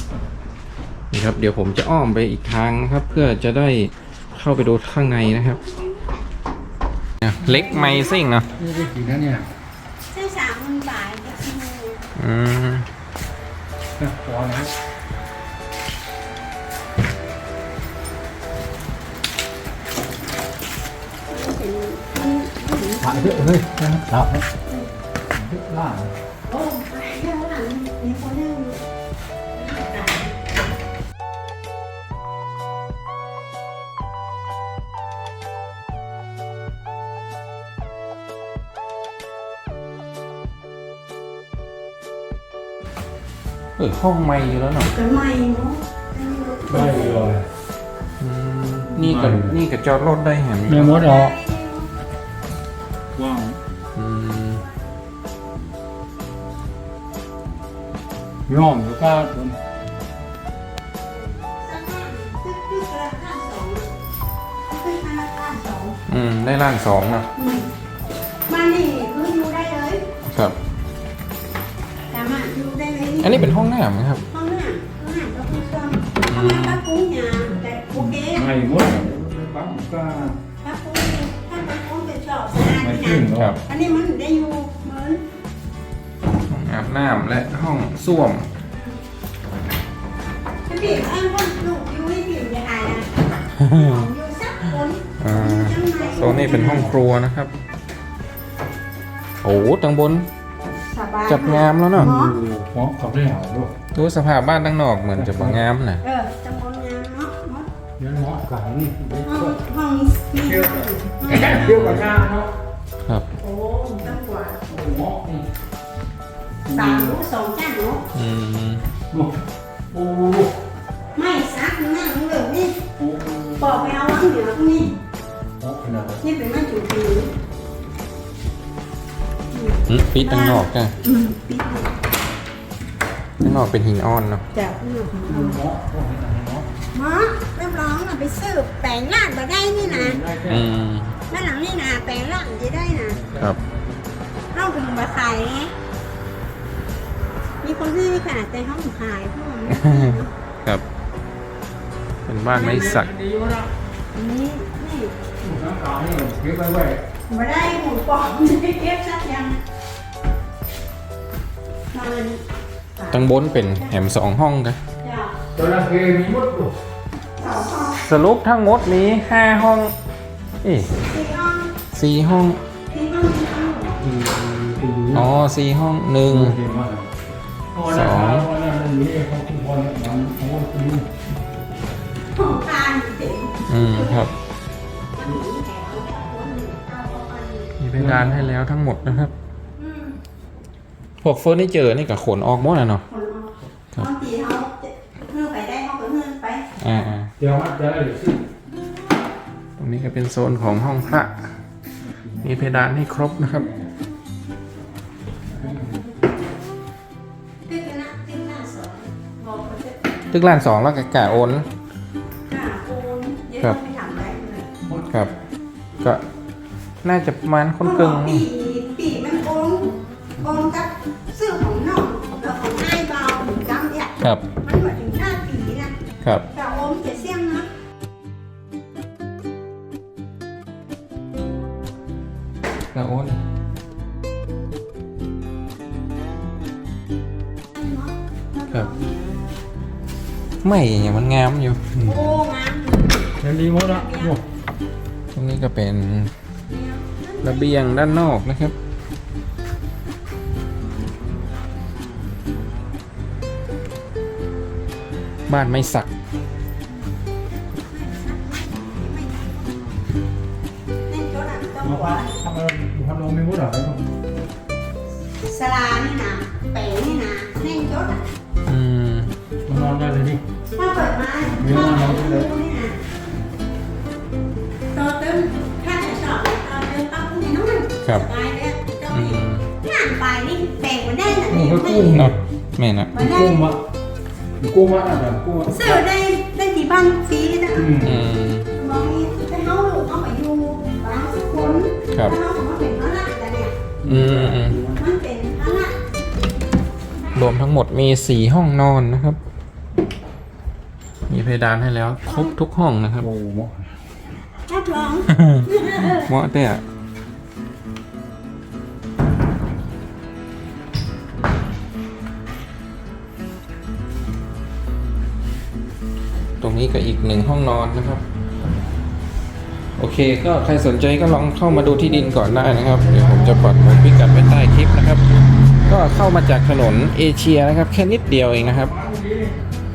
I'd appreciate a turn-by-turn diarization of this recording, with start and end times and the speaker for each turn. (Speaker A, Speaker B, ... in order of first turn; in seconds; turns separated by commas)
Speaker A: 1.1-5.6, Speaker A: 7.2-8.5, Speaker B: 7.5-8.8, Speaker C: 8.6-9.5, Speaker B: 10.1-12.1, Speaker A: 12.2-12.9, Speaker C: 14.0-14.7, Speaker B: 21.3-23.6, Speaker C: 23.0-24.5, Speaker C: 25.3-26.1, Speaker B: 26.5-28.8, Speaker B: 29.6-30.4, Speaker A: 43.8-44.9, Speaker B: 44.9-47.3, Speaker C: 46.7-47.5, Speaker A: 48.2-51.0, Speaker C: 48.9-49.6, Speaker C: 50.7-51.4, Speaker B: 50.9-51.9, Speaker C: 53.1-53.6, Speaker A: 54.0-54.6, Speaker C: 58.5-59.6, Speaker B: 61.2-63.9, Speaker B: 64.7-66.0, Speaker A: 66.1-67.3, Speaker B: 67.4-67.7, Speaker B: 68.5-70.1, Speaker A: 70.3-70.6, Speaker B: 72.1-73.5, Speaker A: 73.2-74.3, Speaker B: 74.3-78.5, Speaker A: 76.3-76.8, Speaker C: 77.9-80.4, Speaker B: 80.6-85.2, Speaker C: 82.7-83.5, Speaker A: 83.3-83.6, Speaker A: 86.5-88.5, Speaker B: 90.7-96.8, Speaker A: 93.5-94.0, Speaker A: 95.2-97.5, Speaker C: 96.0-97.0, Speaker A: 99.4-100.3, Speaker B: 100.9-102.4, Speaker A: 101.3-102.1, Speaker C: 101.9-103.7, Speaker A: 103.9-106.0, Speaker C: 105.2-105.7, Speaker B: 106.0-107.7, Speaker C: 108.0-109.6, Speaker B: 109.2-111.6, Speaker C: 110.5-112.5, Speaker A: 111.3-112.0, Speaker B: 113.4-114.6, Speaker C: 114.7-115.5, Speaker C: 116.7-117.2, Speaker B: 116.7-118.0, Speaker A: 118.1-118.8, Speaker C: 119.9-120.6, Speaker B: 121.1-122.8, Speaker C: 123.0-123.9, Speaker B: 123.6-124.9, Speaker C: 125.6-126.2, Speaker B: 126.2-127.3, Speaker B: 129.5-131.9, Speaker A: 129.9-130.9, Speaker A: 133.4-134.4, Speaker B: 134.5-135.6, Speaker C: 135.3-136.7, Speaker B: 136.9-140.2, Speaker C: 139.8-140.7, Speaker A: 140.5-141.2, Speaker B: 141.3-143.3, Speaker C: 143.2-143.6, Speaker B: 144.5-145.7, Speaker B: 147.6-150.3, Speaker A: 149.8-150.8, Speaker A: 152.3-153.1, Speaker C: 152.5-153.7, Speaker B: 154.1-155.2, Speaker C: 155.4-157.0, Speaker B: 157.3-159.6, Speaker B: 161.9-162.4, Speaker B: 163.0-163.9, Speaker A: 163.1-164.8, Speaker B: 165.0-165.4, Speaker C: 165.5-166.8, Speaker B: 167.4-168.0, Speaker A: 167.9-169.9, Speaker A: 170.6-171.0, Speaker B: 171.1-171.8, Speaker A: 171.9-172.6, Speaker B: 172.9-174.0, Speaker C: 174.0-175.3, Speaker A: 175.1-176.6, Speaker C: 176.3-177.1, Speaker C: 177.7-181.1, Speaker A: 177.9-178.5, Speaker B: 182.3-184.3, Speaker A: 183.7-184.3, Speaker B: 185.2-187.7, Speaker A: 187.8-189.3, Speaker C: 188.0-188.5, Speaker B: 189.8-190.2, Speaker A: 191.2-193.1, Speaker B: 193.1-196.7, Speaker A: 196.8-197.3, Speaker C: 197.4-198.4, Speaker A: 199.8-201.5, Speaker A: 202.4-203.7, Speaker B: 205.6-206.1, Speaker B: 207.7-210.0, Speaker A: 210.3-211.7, Speaker B: 212.5-214.7, Speaker A: 215.1-215.3, Speaker A: 217.0-218.4, Speaker B: 217.8-225.9, Speaker A: 224.2-224.5, Speaker B: 226.5-227.7, Speaker A: 232.9-233.4, Speaker B: 237.8-239.2, Speaker A: 240.6-242.2, Speaker B: 242.0-243.1, Speaker C: 243.4-244.4, Speaker B: 243.8-244.4, Speaker A: 245.3-246.3, Speaker B: 246.7-248.0, Speaker A: 247.4-248.8, Speaker A: 255.5-256.1, Speaker B: 257.9-259.7, Speaker B: 261.1-262.4, Speaker C: 261.8-264.0, Speaker B: 265.4-268.2, Speaker A: 268.7-269.3, Speaker C: 269.6-270.4, Speaker B: 270.8-273.0, Speaker C: 271.4-272.5, Speaker B: 274.9-282.2, Speaker A: 279.1-279.7, Speaker C: 281.5-282.4, Speaker A: 282.1-283.2, Speaker B: 283.1-283.7, Speaker C: 283.2-283.8, Speaker C: 284.6-286.0, Speaker B: 285.7-288.0, Speaker C: 287.8-288.2, Speaker A: 288.0-288.7, Speaker B: 288.7-293.8, Speaker A: 292.1-292.4, Speaker C: 294.0-295.0, Speaker A: 294.1-294.8, Speaker B: 294.9-296.0, Speaker A: 297.3-299.4, Speaker A: 301.3-303.3, Speaker C: 303.2-303.8, Speaker B: 304.7-306.3, Speaker A: 305.4-306.8, Speaker A: 316.6-318.2, Speaker A: 320.0-325.3, Speaker C: 323.1-323.7, Speaker A: 325.9-329.0, Speaker C: 328.9-329.5